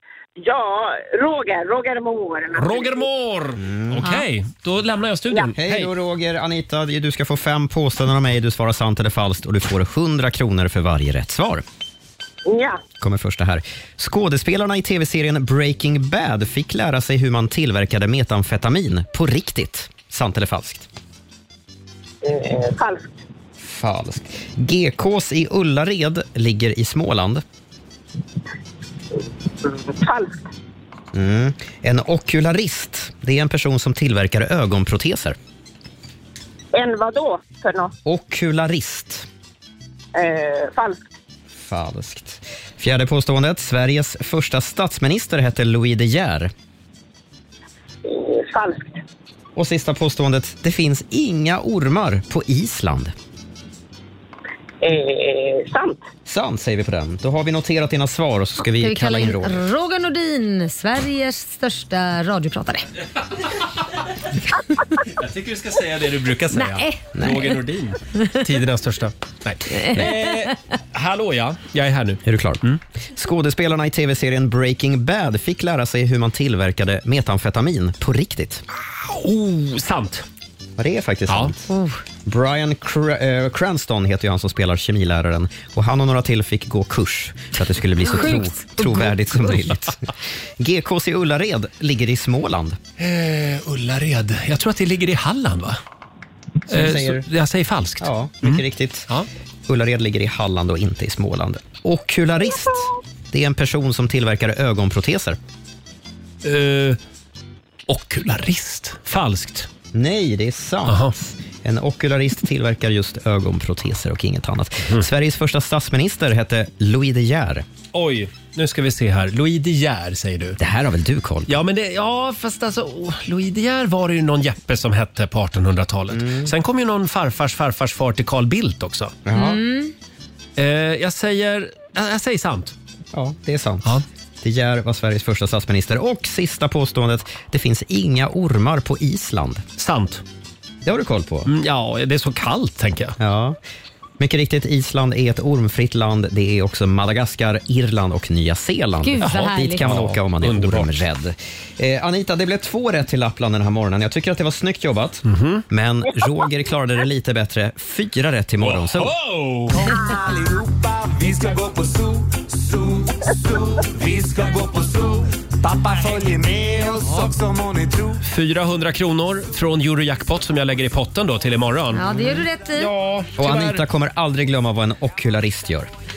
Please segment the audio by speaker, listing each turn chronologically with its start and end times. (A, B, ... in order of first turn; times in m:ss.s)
0:00.4-0:03.0 A
0:02.6-0:05.9 B
0:03.6-0:04.0 C
0:05.6-0:11.6 C
0:12.4-0:12.8 A
0:13.0-0:20.9 C
0:22.2-0:23.1 A
0:23.6-0:27.4 C
0:29.6-0:30.4 A
0:31.1-0:35.4 C
0:36.7-0:37.9 A
0:38.0-0:39.3 C
0:40.2-0:41.0 A
0:41.5-0:46.5 C
0:48.0-0:49.0 A
0:49.6-0:53.1 C
0:54.8-0:56.0 A
0:56.3-0:59.6 C
0:58.6-1:02.9 D
1:05.1-1:12.8 B
1:06.5-1:07.0 D
1:07.2-1:07.6 C
1:09.7-1:10.5 D
1:12.2-1:12.6 C
1:13.2-1:18.6 C
1:19.0-1:20.2 B
1:20.8-1:21.7 C
1:21.7-1:22.0 D
1:22.2-1:32.8 C
1:28.0-1:29.6 D
1:33.0-1:35.8 B
1:36.7-1:37.3 C
1:36.7-1:39.3 B
1:38.0-1:39.1 C
1:39.7-1:45.4 C
1:46.4-1:47.0 B
1:47.9-1:49.7 B
1:49.9-1:57.6 C
1:50.9-1:51.1 B
1:57.9-2:00.6 B
2:00.6-2:01.6 C
2:01.5-2:09.2 B
2:06.1-2:06.5 C
2:09.2-2:09.6 C
2:09.3-2:09.9 D
2:10.6-2:12.7 B
2:13.1-2:19.6 C
2:19.8-2:20.2 B
2:20.8-2:21.5 C
2:21.5-2:23.2 B
2:23.2-2:23.6 C
2:24.2-2:39.2 C
2:29.0-2:29.9 D
2:29.2-2:31.0 B
2:35.3-2:35.6 B
2:38.6-2:40.0 B
2:41.3-2:42.2 E
2:44.0-2:44.9 E
2:45.6-2:48.2 E
2:47.0-2:47.3 B
2:48.2-2:52.1 B
2:51.9-2:52.9 D
2:52.7-2:53.8 B
2:53.4-2:55.9 C